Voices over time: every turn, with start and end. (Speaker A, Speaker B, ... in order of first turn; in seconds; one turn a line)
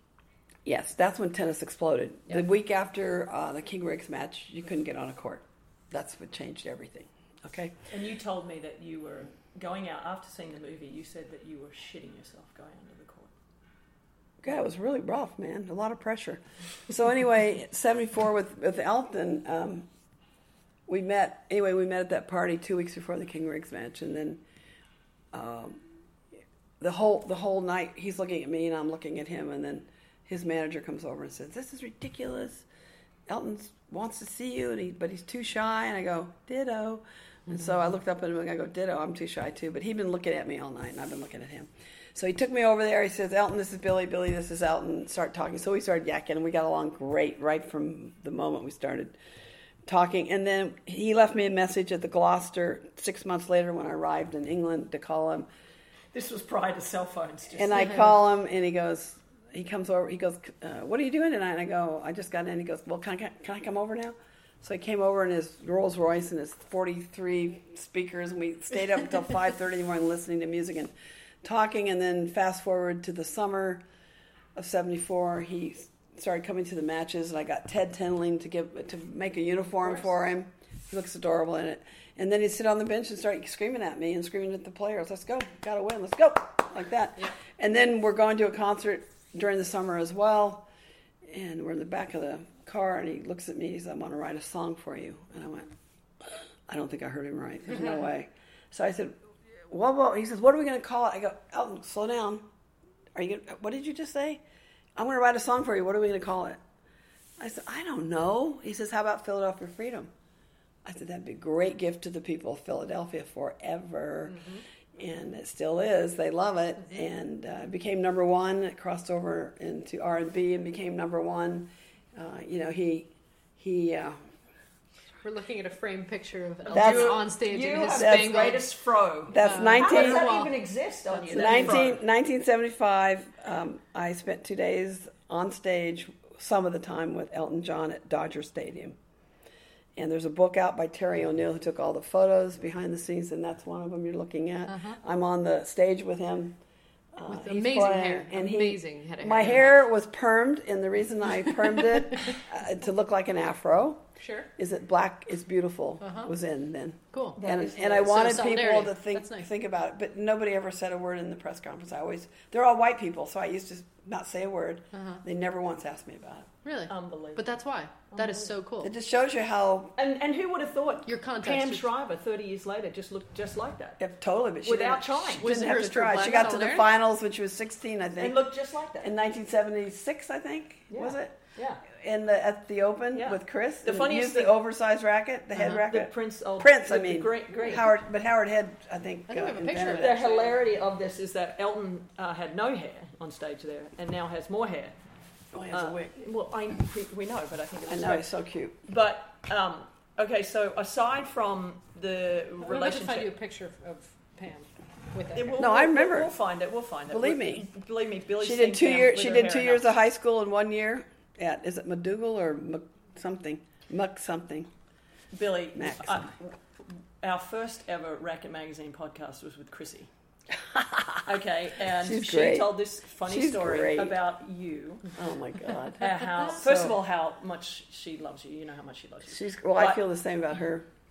Speaker A: 0.7-7.8
Speaker B: 7.9-13.3
Speaker A: 14.4-19.9
Speaker A: 20.9-24.4
Speaker A: 25.3-25.8
Speaker A: 26.8-32.7
Speaker A: 33.3-49.2
Speaker A: 49.9-55.5
Speaker B: 56.1-58.1
Speaker A: 57.6-70.9
Speaker A: 71.4-73.8
Speaker A: 74.6-90.7
Speaker A: 91.3-95.7
Speaker A: 96.7-99.2
Speaker A: 99.7-102.5
Speaker A: 103.2-104.4
Speaker A: 105.0-106.6
Speaker A: 107.4-110.1
Speaker A: 110.8-114.4
Speaker C: 114.3-114.6
Speaker A: 115.0-124.2
Speaker C: 125.2-128.7
Speaker B: 126.7-132.0
Speaker A: 126.7-128.7
Speaker A: 129.3-130.3
Speaker C: 129.3-130.6
Speaker C: 131.1-131.8
Speaker A: 131.3-139.0
Speaker A: 140.0-146.6
Speaker C: 144.7-145.0
Speaker A: 147.2-154.1
Speaker C: 147.3-149.8
Speaker C: 151.8-152.3
Speaker C: 154.2-154.5
Speaker A: 154.6-166.5
Speaker C: 156.0-156.3
Speaker C: 157.1-157.4
Speaker B: 157.4-158.4
Speaker C: 157.9-159.5
Speaker C: 164.9-165.2
Speaker C: 166.7-168.9
Speaker B: 166.9-167.4
Speaker B: 168.1-168.5
Speaker A: 168.8-169.9
Speaker B: 170.0-174.0
Speaker C: 171.1-171.8
Speaker A: 174.0-178.4
Speaker B: 174.6-175.5
Speaker C: 175.4-176.9
Speaker B: 178.2-179.1
Speaker A: 179.0-181.3
Speaker B: 180.9-181.8
Speaker A: 181.9-190.5
Speaker B: 183.2-184.6
Speaker B: 185.6-187.9
Speaker C: 189.3-190.5
Speaker B: 190.0-195.0
Speaker A: 195.5-196.1
Speaker B: 195.7-198.3
Speaker A: 197.9-198.8
Speaker B: 198.9-203.3
Speaker C: 202.6-205.6
Speaker B: 205.3-209.9
Speaker A: 205.6-206.3
Speaker A: 207.1-207.7
Speaker A: 208.4-214.7
Speaker B: 215.3-216.5
Speaker A: 215.8-216.3
Speaker B: 217.2-220.1
Speaker A: 220.6-221.2
Speaker B: 221.2-225.1
Speaker A: 222.0-224.2
Speaker A: 225.2-227.0
Speaker B: 226.0-230.0
Speaker A: 229.3-230.9